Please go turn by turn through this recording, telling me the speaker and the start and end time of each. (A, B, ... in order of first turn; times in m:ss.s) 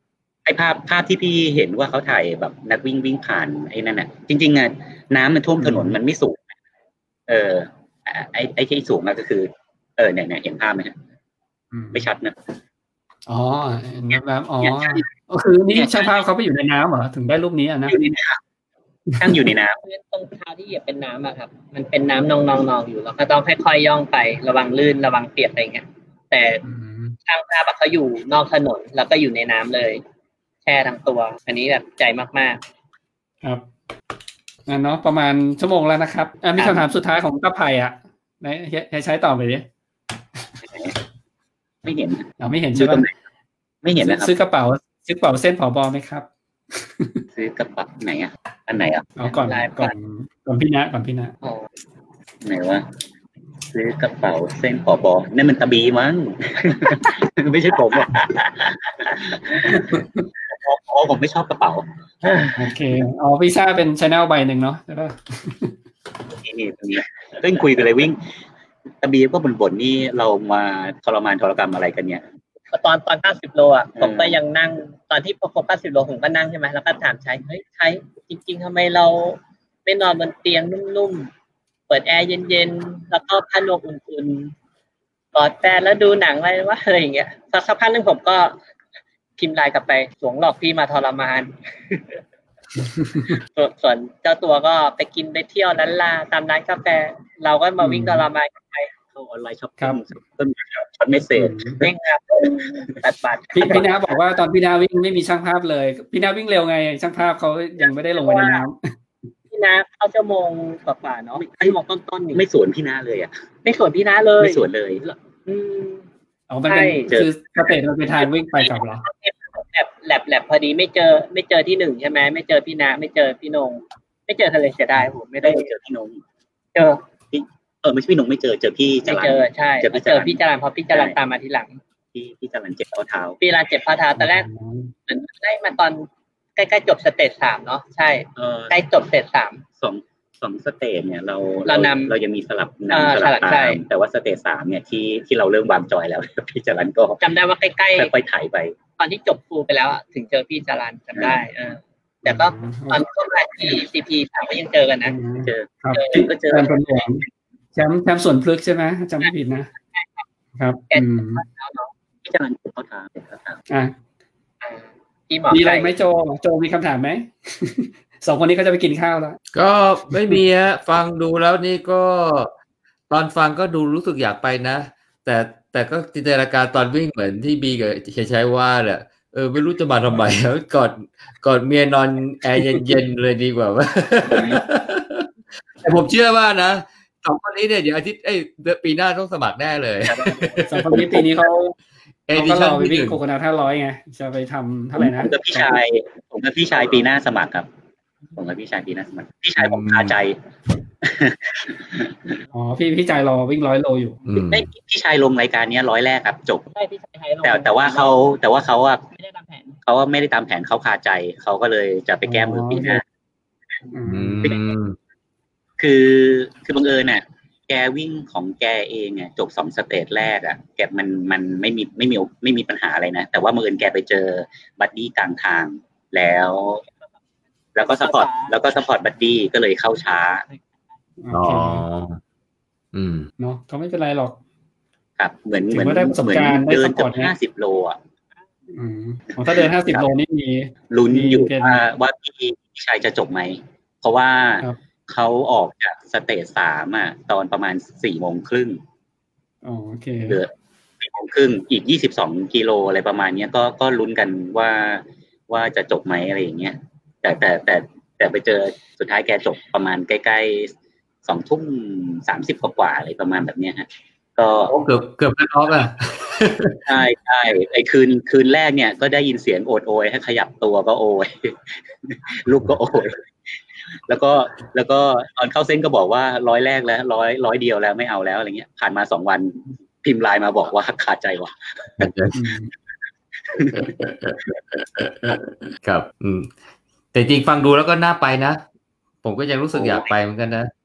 0:00.4-0:06.5 A
0:05.6-0:06.0 B
0:07.3-0:11.0 A
0:11.7-0:12.1 B
0:11.9-0:12.4 A
0:13.3-0:18.0 B
0:14.6-0:15.0 A
0:15.7-0:16.1 A
0:17.9-0:18.4 A
0:19.2-0:19.8 A
0:19.8-0:26.6 C
0:26.6-0:27.2 B
0:27.2-0:30.0 C
0:30.6-0:32.6 C
0:34.7-0:39.6 B
0:36.6-0:36.8 A
0:40.6-0:41.0 A
0:41.8-0:43.1 A
0:42.4-0:43.0 B
0:43.8-0:44.3 A
0:44.0-0:47.2 B
0:47.3-0:49.2 A
0:49.2-0:51.3 B
0:49.2-0:49.9 C
0:52.4-0:52.9 A
0:53.7-1:02.6 A
0:59.7-1:00.2 B
1:02.6-1:05.7 B
1:06.4-1:08.3 A
1:09.0-1:12.2 A
1:12.7-1:21.3 C
1:14.0-1:14.4 A
1:21.9-1:24.5 C
1:25.3-1:28.6 C
1:29.4-1:31.5 C
1:32.9-1:33.3 B
1:33.3-1:38.9 C
1:37.8-1:38.2 B
1:39.1-1:43.0 A
1:41.3-1:41.8 B
1:41.8-1:43.9 C
1:43.5-1:48.9 B
1:43.5-1:43.9 A
1:47.8-1:48.6 C
1:49.5-1:52.4 C
1:51.4-1:51.8 A
1:52.3-1:53.3 A
1:53.6-1:56.1 C
1:54.4-1:55.0 A
1:56.5-1:59.0 B
1:56.7-1:57.1 C
1:57.1-1:57.7 A
1:58.6-2:05.7 C
2:05.4-2:06.2 A
2:06.7-2:07.0 C
2:07.3-2:10.4 A
2:09.0-2:11.8 C
2:12.1-2:13.4 A
2:13.4-2:14.5 C
2:14.2-2:14.9 B
2:15.1-2:19.6 C
2:18.4-2:18.8 A
2:19.8-2:27.2 A
2:21.7-2:22.1 C
2:22.9-2:23.8 C
2:27.2-2:28.1 C
2:27.9-2:28.8 A
2:29.0-2:35.2 C
2:31.2-2:31.4 A
2:32.2-2:33.0 B
2:35.0-2:39.7 B
2:35.4-2:36.8 A
2:35.9-2:36.2 C
2:39.9-2:40.2 C
2:40.6-2:41.4 B
2:40.9-2:41.9 C
2:42.2-2:43.6 A
2:44.6-2:45.9 C
2:45.5-2:49.4 B
2:49.5-2:52.5 D
2:50.1-2:50.4 B
2:53.1-3:05.3 D
3:02.6-3:02.8 B
3:04.3-3:04.6 A
3:05.8-3:11.2 D
3:10.0-3:11.3 A
3:10.7-3:11.8 B
3:12.3-3:13.2 D
3:12.3-3:15.7 B
3:15.0-3:17.7 A
3:18.3-3:20.4 A
3:19.6-3:20.2 D
3:21.0-3:22.4 A
3:22.5-3:24.2 B
3:24.3-3:24.7 D
3:24.3-3:26.6 A
3:26.7-3:28.2 C
3:27.4-3:29.0 A
3:29.1-3:29.8 C
3:29.8-3:33.0 A
3:32.2-3:33.0 B
3:33.9-3:34.6 B
3:34.1-3:35.0 D
3:35.8-3:46.8 A
3:47.8-3:50.4 A
3:47.9-3:48.7 C
3:51.2-3:51.8 B
3:51.3-3:52.2 D
3:52.9-3:53.3 D
3:53.4-3:54.4 B
3:55.2-3:58.0 A
3:55.7-3:57.3 B
3:58.7-4:01.8 B
3:59.5-4:00.1 A
4:00.9-4:08.8 A
4:09.6-4:10.4 B
4:10.2-4:24.8 A
4:24.7-4:27.0 D
4:26.9-4:33.2 A
4:34.1-4:42.1 A
4:42.0-4:42.4 D
4:42.3-4:42.7 B
4:43.4-4:43.9 A
4:43.7-4:46.5 D
4:47.1-4:48.6 D
4:49.2-4:50.7 D
4:49.7-4:50.1 A